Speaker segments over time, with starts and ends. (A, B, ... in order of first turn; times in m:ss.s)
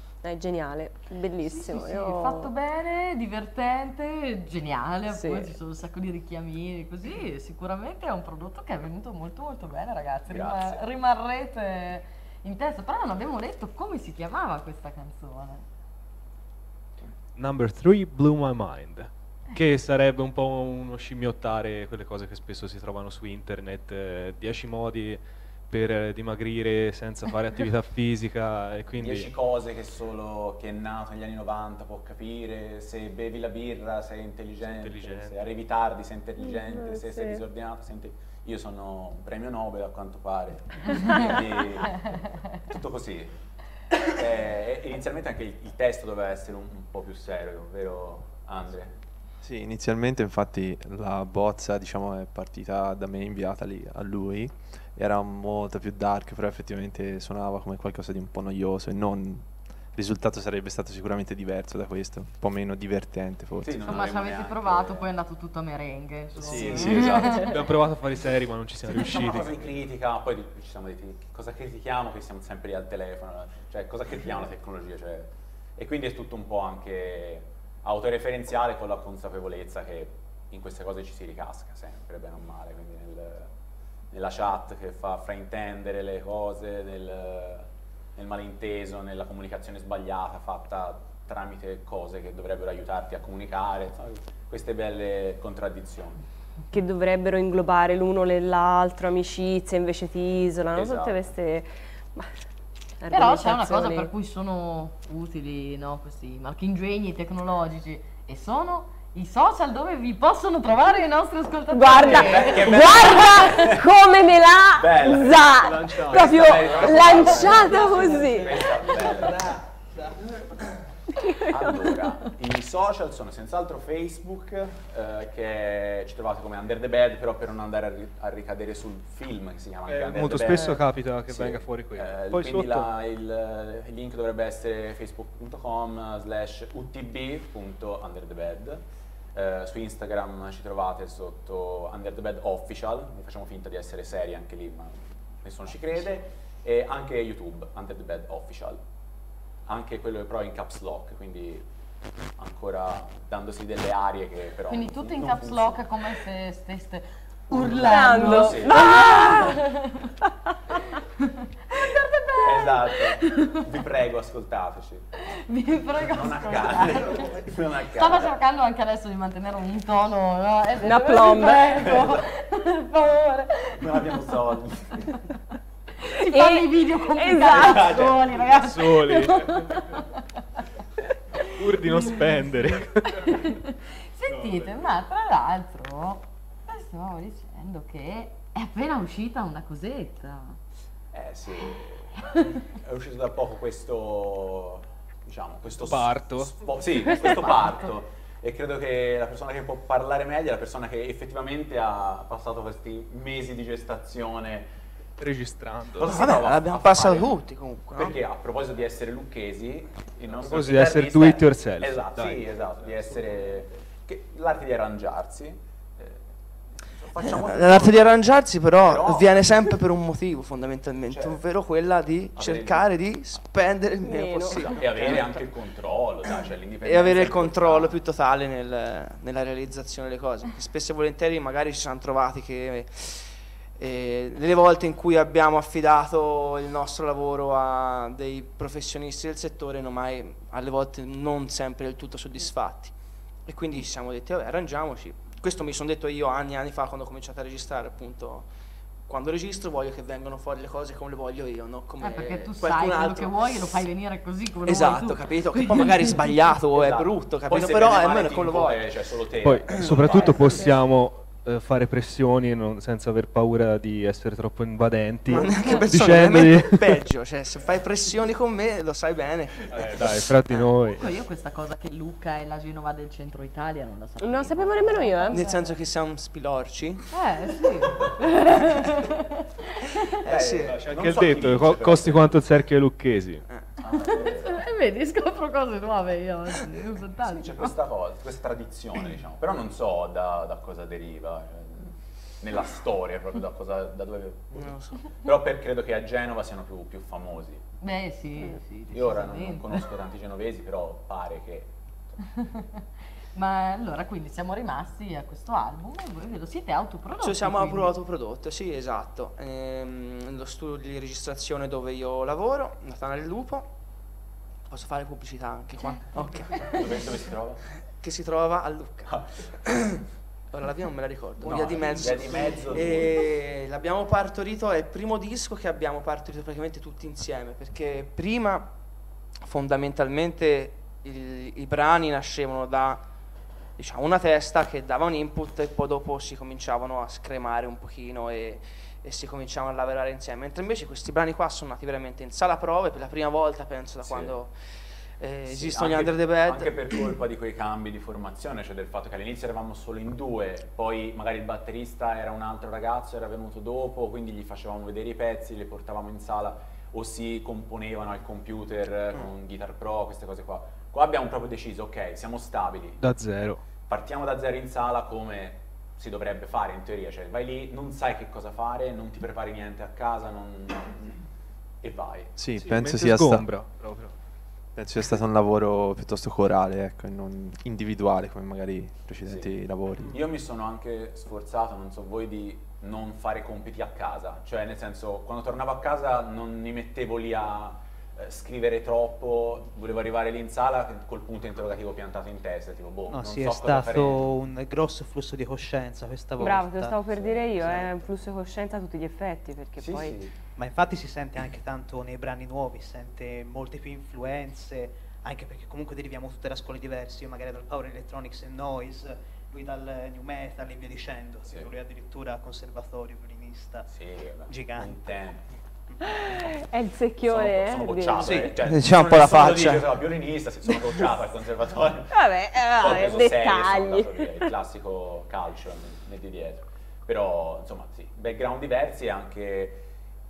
0:00.2-0:02.5 A
0:01.4-0:15.6 B
0:05.1-0:05.6 A
0:10.3-0:10.8 C
0:17.4-0:29.3 D
0:29.0-0:43.3 C
0:34.6-0:35.4 D
0:36.4-0:37.4 A
0:44.0-0:49.0 C
0:49.4-1:04.0 E
1:03.6-1:05.1 C
1:03.8-1:07.5 B
1:06.4-1:07.4 E
1:06.5-1:09.7 D
1:06.7-1:07.1 C
1:08.9-1:23.5 C
1:24.1-1:36.2 C
1:36.7-1:42.3 A
1:40.7-1:41.2 C
1:43.0-1:44.1 A
1:43.1-1:53.7 B
1:51.7-1:58.9 A
1:52.0-1:53.9 C
1:54.7-1:59.6 C
1:55.8-2:00.1 F
2:01.3-2:02.0 A
2:01.4-2:18.8 C
2:09.9-2:12.9 D
2:19.3-2:28.8 C
2:29.6-2:31.7 C
2:32.4-2:35.8 C
2:34.7-2:40.1 B
2:37.5-2:39.4 C
2:37.6-2:39.6 A
2:41.2-2:43.6 B
2:42.4-2:45.1 C
2:45.2-2:47.2 B
2:46.0-2:48.3 C
2:47.9-2:54.1 B
2:50.8-2:52.0 A
2:51.7-2:52.2 C
2:53.8-2:55.2 C
2:56.0-3:00.2 B
2:56.3-2:58.2 A
2:57.5-2:58.4 C
2:58.4-2:59.8 D
3:01.4-3:03.5 D
3:03.2-3:10.6 B
3:04.3-3:04.8 D
3:11.1-3:24.7 C
3:15.8-3:16.5 D
3:17.3-3:17.6 A
3:25.2-3:26.2 D
3:26.0-3:36.2 C
3:26.0-3:28.2 G
3:30.4-3:32.6 D
3:36.8-3:38.2 C
3:37.2-3:45.4 G
3:38.8-3:39.6 C
3:41.1-3:41.4 C
3:42.4-3:43.0 C
3:44.0-3:45.1 A
3:44.4-3:48.0 C
3:46.8-4:08.5 G
4:09.1-4:13.8 G
4:12.0-4:16.2 B
4:14.6-4:18.9 G
4:16.7-4:20.6 C
4:19.4-4:27.0 D
4:19.7-4:20.2 G
4:25.3-4:30.2 G
4:29.7-4:31.0 D
4:30.9-4:35.8 B
4:34.2-4:35.5 A
4:35.3-4:37.1 G
4:37.1-4:40.0 B
4:40.2-4:40.8 G
4:40.2-4:42.4 C
4:40.6-4:43.4 D
4:43.8-4:44.6 C
4:44.1-4:47.8 B
4:47.2-4:57.6 C
4:54.5-4:55.1 G
4:57.8-4:59.8 B
4:58.9-5:01.7 C
5:02.4-5:02.8 B
5:03.3-5:07.9 B
5:07.2-5:13.7 G
5:14.7-5:17.1 G
5:16.6-5:17.6 C
5:17.8-5:28.7 G
5:19.0-5:19.4 C
5:21.4-5:23.3 C
5:29.4-5:33.0 G
5:33.8-5:44.5 G
5:44.0-5:44.3 C
5:45.2-5:46.9 G
5:45.5-6:03.0 C
6:03.0-6:03.6 D
6:03.9-6:11.2 C
6:11.8-6:12.3 C
6:12.4-6:13.5 E
6:12.6-6:14.1 D
6:14.7-6:20.2 E
6:19.2-6:34.3 C
6:33.1-6:37.0 F
6:36.4-6:40.2 A
6:37.1-6:37.9 C
6:37.6-6:37.9 F
6:39.8-6:40.3 C
6:40.6-6:53.9 F
6:51.4-6:51.7 C
6:53.9-6:55.5 C
6:54.5-6:55.1 F
6:56.0-6:58.5 A
6:57.2-7:02.2 C
6:58.1-6:58.6 F
6:58.6-7:00.0 G
7:02.1-7:04.5 A
7:02.8-7:09.8 C